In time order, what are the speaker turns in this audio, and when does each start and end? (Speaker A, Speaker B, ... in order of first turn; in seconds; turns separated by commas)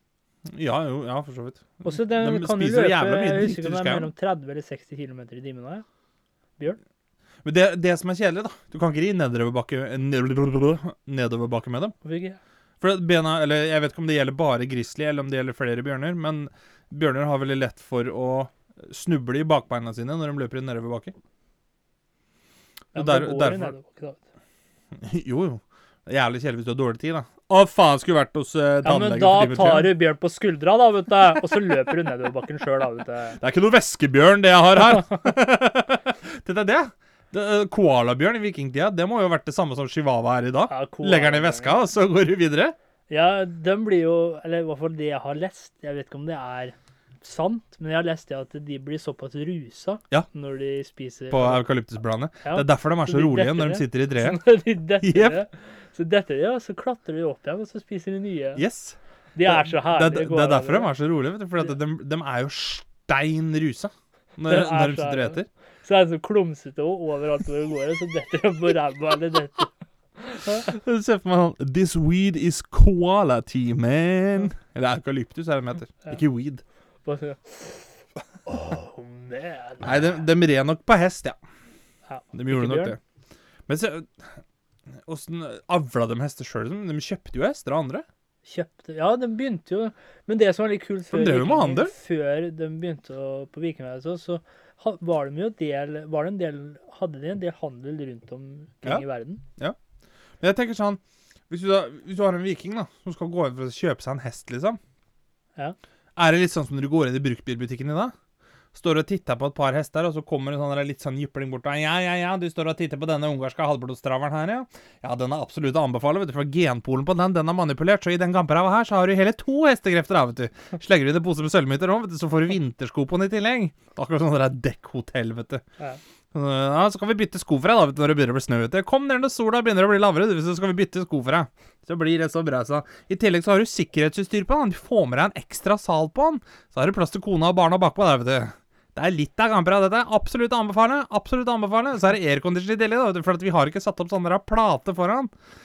Speaker A: 0.5-4.1, Speaker B: 1.8-5.8, Speaker A: 7.4-11.9, Speaker B: 12.0-12.4, Speaker A: 12.8-21.1, Speaker A: 22.9-23.7, Speaker B: 22.9-24.2, Speaker A: 25.0-29.9, Speaker B: 28.8-33.4, Speaker A: 33.4-42.7, Speaker B: 40.7-41.8, Speaker B: 43.1-51.6, Speaker A: 51.3-54.4, Speaker B: 52.4-58.6, Speaker A: 55.0-55.4, Speaker A: 58.5-65.5, Speaker B: 59.3-60.9, Speaker B: 64.5-70.7, Speaker A: 70.4-76.6, Speaker B: 77.0-80.2, Speaker A: 79.8-81.4, Speaker B: 82.1-82.9, Speaker A: 82.3-83.0, Speaker A: 83.7-84.4, Speaker A: 85.1-88.0, Speaker B: 88.4-99.4, Speaker A: 91.1-91.9, Speaker A: 100.4-104.8, Speaker A: 106.2-108.1, Speaker A: 108.7-125.6, Speaker A: 126.3-145.3